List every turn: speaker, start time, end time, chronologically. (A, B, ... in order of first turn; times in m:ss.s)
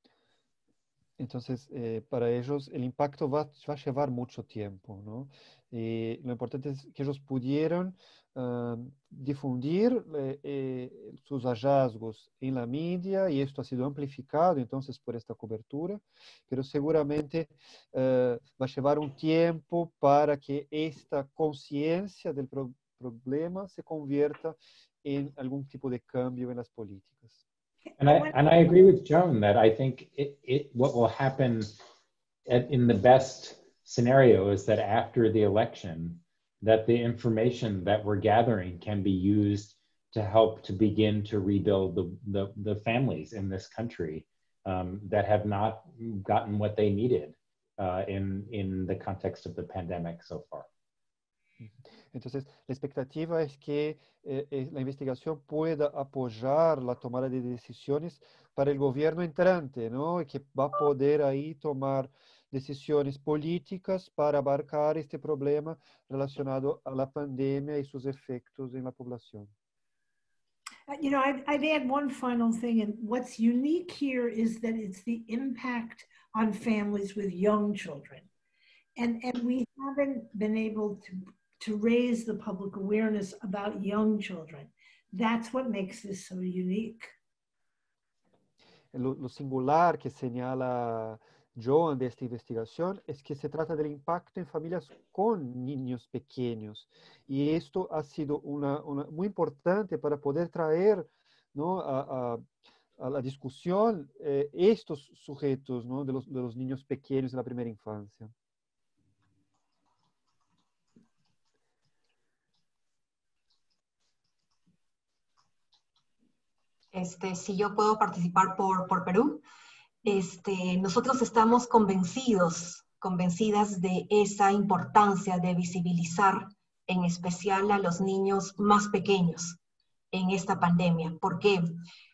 0:01.2-0:27.4 A
0:28.0-0:28.5 B
0:28.0-0:31.7 C
0:32.5-0:50.7 C
0:51.6-1:09.5 A
1:10.9-1:18.3 B
1:19.0-1:27.1 B
1:28.9-1:42.4 A
1:43.0-1:48.3 A
1:56.9-1:59.4 D
2:00.0-2:09.6 D
2:10.1-2:11.6 D